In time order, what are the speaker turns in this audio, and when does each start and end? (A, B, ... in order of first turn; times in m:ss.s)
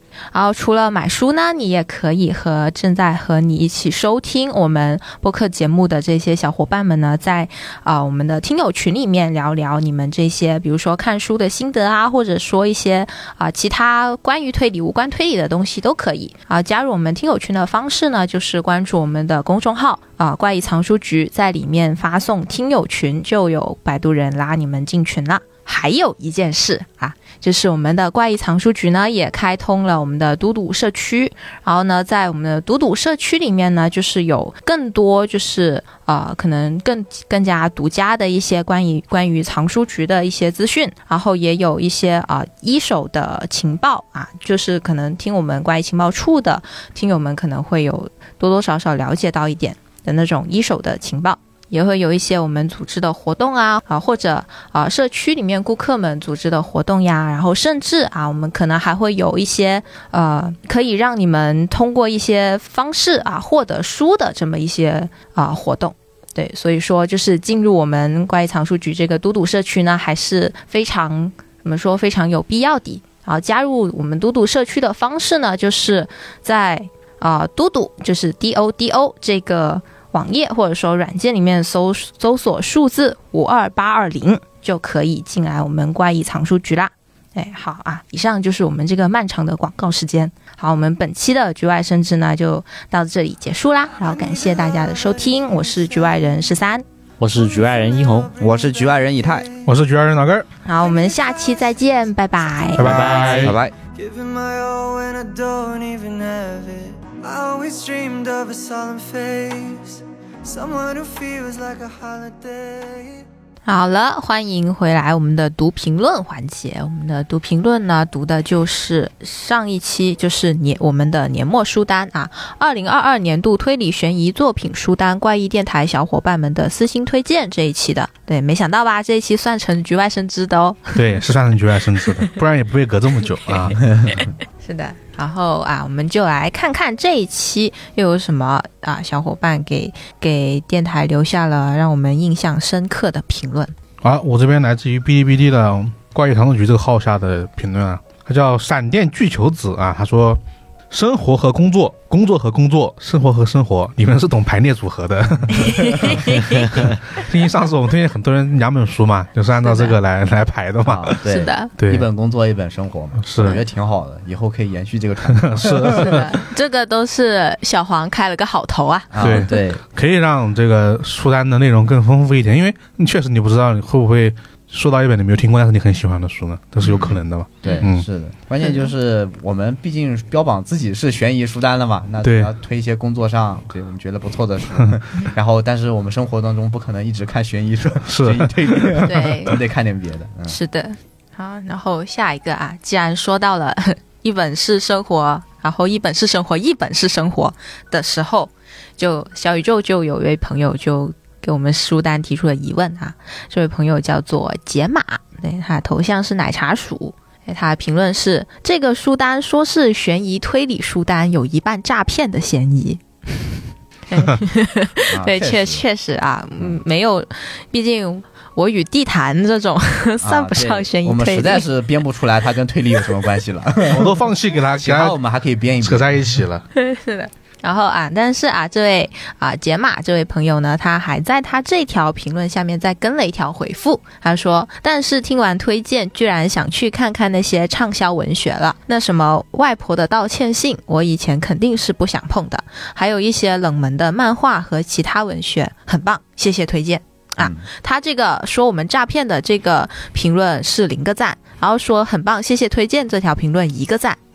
0:00.3-1:36.8 A
1:34.4-1:34.7 B
1:37.2-1:38.3 C
1:37.3-1:39.5 B
1:38.4-1:39.5 D
1:39.6-1:40.5 E
1:40.6-1:43.1 A
1:40.8-1:41.6 B
1:42.8-1:43.6 E
1:42.8-1:43.6 C
1:43.0-1:53.2 B
1:43.4-1:43.7 D
1:53.6-2:11.0 A
2:10.9-2:13.8 E
2:13.9-2:14.2 D
2:14.6-2:23.7 A
2:24.0-2:41.2 E
2:35.6-2:36.6 A
2:39.6-2:40.0 A
2:40.8-2:46.2 D
2:41.2-2:41.7 A
2:41.8-2:42.1 E
2:43.2-2:43.6 E
2:45.3-2:46.3 E
2:45.9-2:49.6 A
2:49.1-2:49.8 D
2:49.2-2:58.1 E
2:56.8-3:10.6 D
2:57.6-2:57.9 A
2:58.6-2:58.9 A
3:02.2-3:02.5 E
3:08.0-3:09.3 E
3:09.0-3:09.6 A
3:10.5-3:41.6 A
3:35.1-3:35.8 D
3:40.2-3:46.3 D
3:43.9-3:45.2 E
3:45.8-3:46.6 E
3:46.7-4:14.2 A
4:07.4-4:07.6 D